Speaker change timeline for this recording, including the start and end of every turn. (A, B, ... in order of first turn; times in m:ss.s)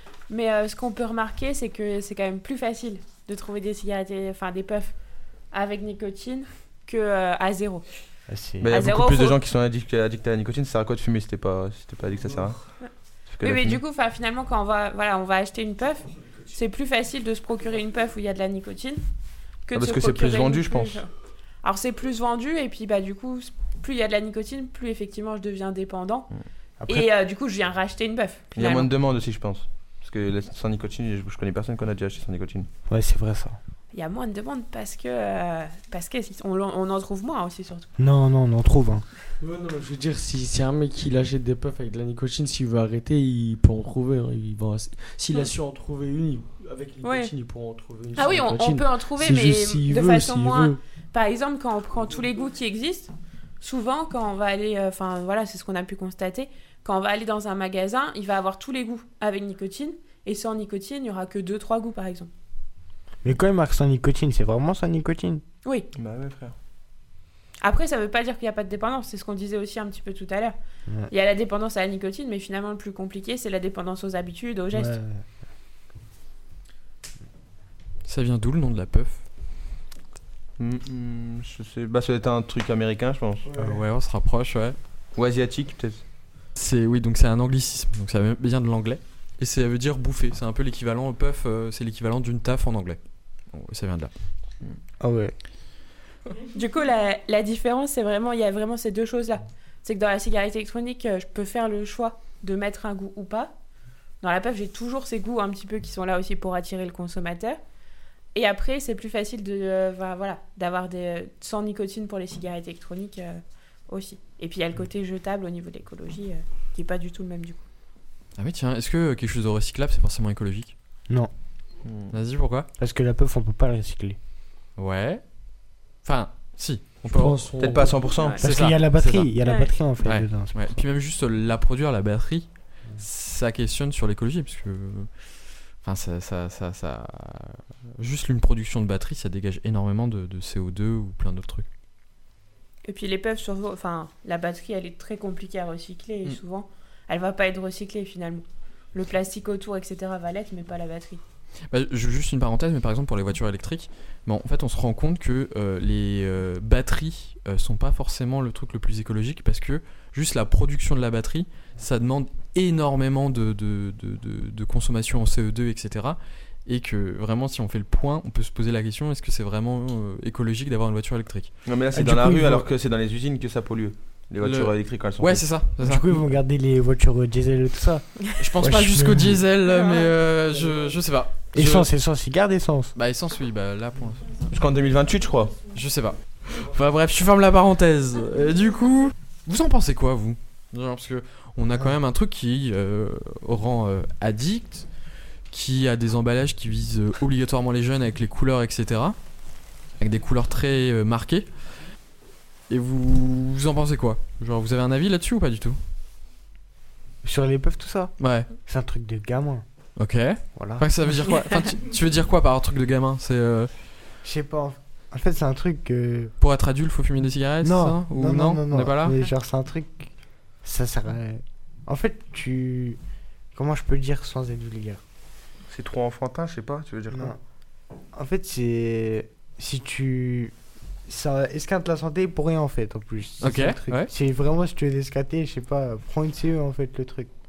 0:00.3-0:04.9 A
0:05.5-0:07.8 A
0:08.3-0:08.7 B
0:08.6-0:12.6 C
0:08.6-0:09.4 A
0:13.3-0:13.8 C
0:13.4-0:19.0 A
0:19.7-0:21.1 A
0:19.7-0:21.0 C
0:21.6-0:26.3 A
0:26.8-0:27.1 B
0:26.9-0:28.9 A
0:28.5-0:32.7 C
0:32.9-0:33.6 B
0:33.9-0:37.9 A
0:38.0-0:39.1 B
0:39.4-0:50.8 D
0:47.0-0:47.3 A
0:48.1-1:02.3 A
1:03.2-1:05.4 B
1:05.9-1:06.5 C
1:07.6-1:10.6 A
1:11.1-1:15.0 A
1:14.7-1:15.2 B
1:18.0-1:19.2 E
1:20.6-1:23.5 C
1:23.5-1:23.8 B
1:23.6-1:24.8 E
1:25.1-1:26.0 C
1:26.6-1:33.0 E
1:33.5-1:34.1 E
1:35.0-1:35.3 B
1:36.5-1:43.5 A
1:44.2-1:47.6 A
1:48.3-1:57.6 A
1:58.4-2:00.7 E
2:01.8-2:02.1 C
2:02.1-2:02.7 E
2:02.8-2:04.2 B
2:04.8-2:05.2 E
2:06.0-2:07.5 E
2:07.0-2:08.1 D
2:07.6-2:08.4 C
2:08.4-2:10.7 B
2:08.4-2:09.3 E
2:09.4-2:09.7 A
2:10.0-2:15.2 E
2:15.8-2:21.6 E
2:22.8-2:31.2 A
2:31.7-2:51.5 E
2:51.6-2:55.5 C
2:51.9-2:52.6 B
2:54.4-2:56.1 E
2:55.8-2:59.4 B
2:58.4-3:01.9 E
2:59.7-3:00.1 A
3:01.5-3:02.9 B
3:02.9-3:04.3 E
3:04.5-3:05.6 C
3:05.7-3:14.9 E
3:15.5-3:19.2 E
3:20.0-3:21.5 E
3:22.7-3:25.8 E
3:27.2-3:28.1 B
3:28.2-3:28.5 E
3:28.6-3:29.6 B
3:30.0-3:33.7 E
3:30.6-3:30.9 B
3:34.2-3:36.3 B
3:36.4-3:39.2 E
3:37.6-3:40.1 B
3:40.6-3:43.0 B
3:43.5-3:45.0 B
3:45.7-3:47.4 C
3:47.1-3:47.4 B
3:48.1-3:50.5 B
3:51.0-3:57.3 B
3:53.4-3:54.1 E